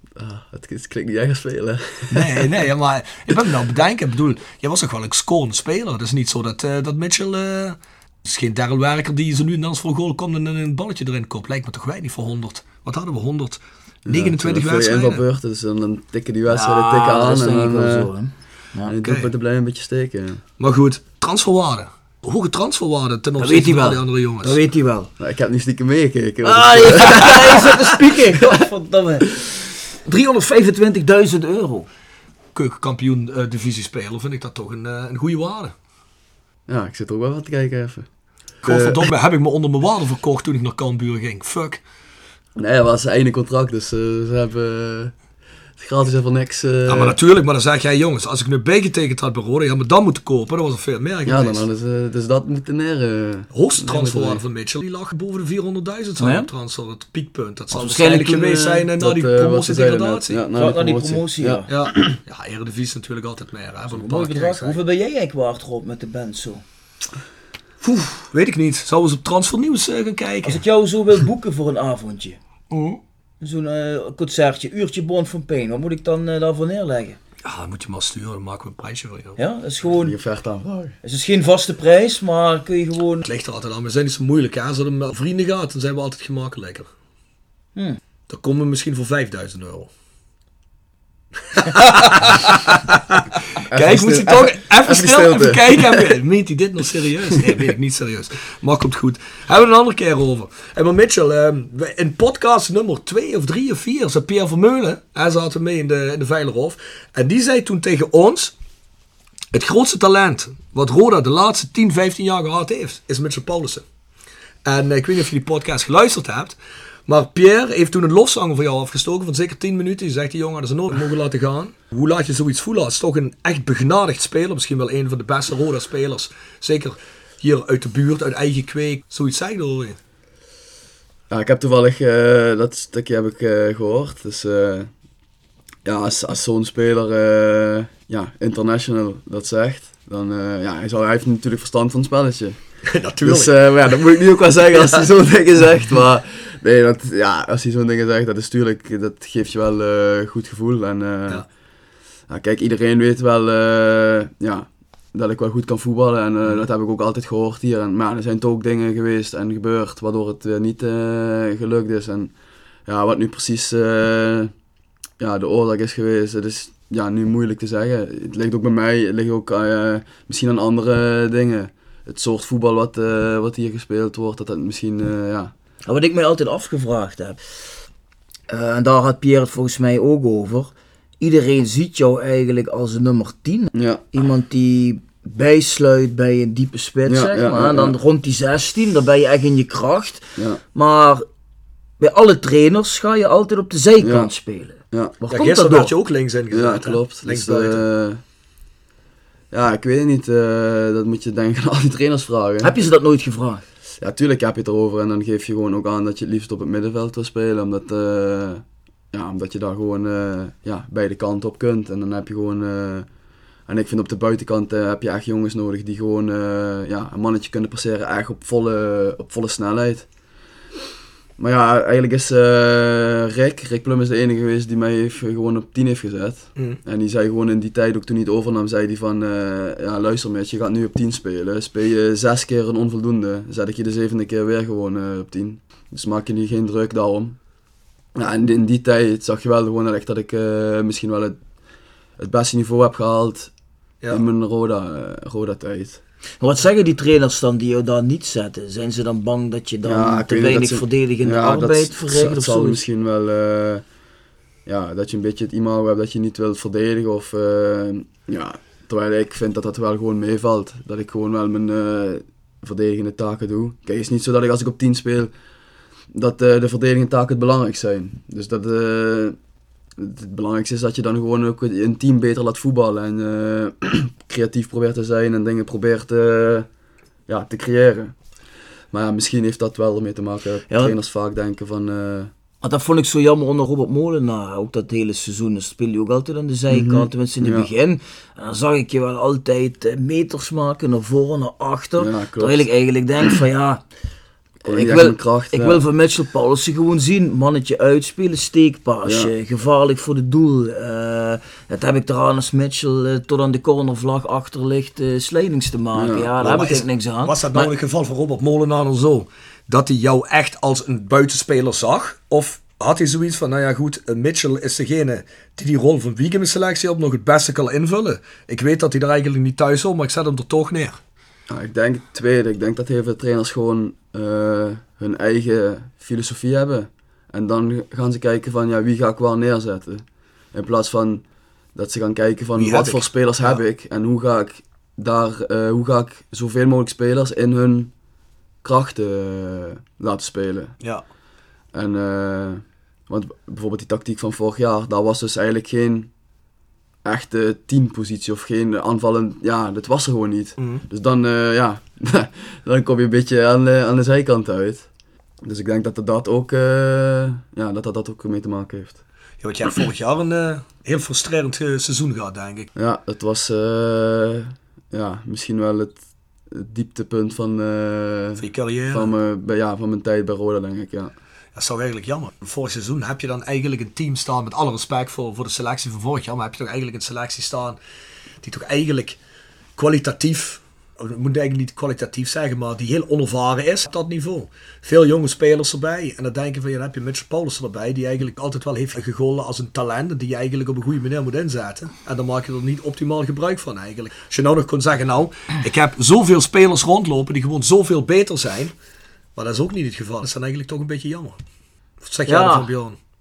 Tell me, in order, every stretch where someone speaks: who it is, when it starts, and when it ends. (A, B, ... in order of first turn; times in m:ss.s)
0:00.2-0:02.5 A
0:02.1-0:15.2 B
0:14.1-0:18.1 A
0:16.5-0:19.0 C
0:18.9-0:20.4 A
0:20.6-0:24.6 B
0:23.4-0:25.1 C
0:25.2-0:27.5 A
0:26.4-0:29.4 C
0:27.2-0:27.8 B
0:30.0-0:31.9 C
0:32.6-0:35.7 B
0:36.7-0:38.1 A
0:38.6-0:41.8 B
0:38.6-0:39.0 A
0:42.6-0:45.1 A
0:45.8-0:47.2 A
0:46.9-0:51.7 B
0:51.2-0:54.4 A
0:53.5-1:00.4 B
0:56.2-0:56.5 C
0:57.7-0:58.9 C
0:59.0-1:01.7 A
1:00.5-1:01.7 C
1:01.7-1:04.8 B
1:03.9-1:06.6 C
1:07.8-1:10.6 B
1:10.4-1:12.4 C
1:13.4-1:17.2 C
1:17.4-1:19.4 B
1:19.4-1:20.2 C
1:19.9-1:21.0 A
1:21.0-1:23.3 C
1:23.2-1:26.9 B
1:28.3-1:29.9 B
1:31.5-1:48.5 B
1:33.7-1:36.2 A
1:49.5-1:53.8 B
1:54.6-1:56.6 B
1:57.1-2:10.0 B
2:11.3-2:14.9 A
2:15.8-2:22.6 A
2:22.9-2:24.0 B
2:23.2-2:31.5 A
2:32.3-2:42.3 A
2:42.9-2:44.5 A
2:45.2-2:55.5 A
2:55.9-2:57.4 C
2:58.5-3:11.2 C
3:03.7-3:04.1 A
3:07.1-3:08.0 A
3:12.0-3:15.9 C
3:14.0-3:14.3 A
3:14.9-3:15.2 A
3:15.3-3:17.8 B
3:16.5-3:18.2 A
3:19.5-3:22.8 A
3:22.6-3:23.6 C
3:24.0-3:33.1 A
3:33.7-3:40.1 A
3:41.4-3:57.4 A
3:58.2-4:01.4 A
4:02.2-4:03.5 A
4:04.1-4:06.0 A
4:06.4-4:12.8 C
4:09.8-4:13.8 A
4:14.7-4:25.3 A
4:26.1-4:29.4 A
4:30.0-4:36.7 A
4:37.3-4:38.2 A
4:38.9-4:42.3 A
4:40.7-4:41.0 C
4:42.6-4:53.8 C
4:46.7-4:47.7 A
4:52.0-4:52.7 A
4:54.6-4:55.8 A
4:54.6-5:07.7 C
4:59.0-4:59.3 A
5:06.0-5:06.3 A
5:06.4-5:21.0 B
5:21.5-5:37.9 A
5:32.6-5:33.6 B
5:38.6-5:40.8 A
5:41.7-5:46.1 A
5:47.0-5:54.9 A
5:50.6-5:50.8 B
5:55.4-5:59.0 A
5:59.4-6:02.7 B
6:02.8-6:11.1 A
6:08.4-6:09.1 B
6:11.6-6:17.8 B
6:18.4-6:19.2 B
6:19.8-6:38.7 B
6:39.4-6:41.4 B
6:42.0-6:43.0 B
6:42.3-6:42.7 C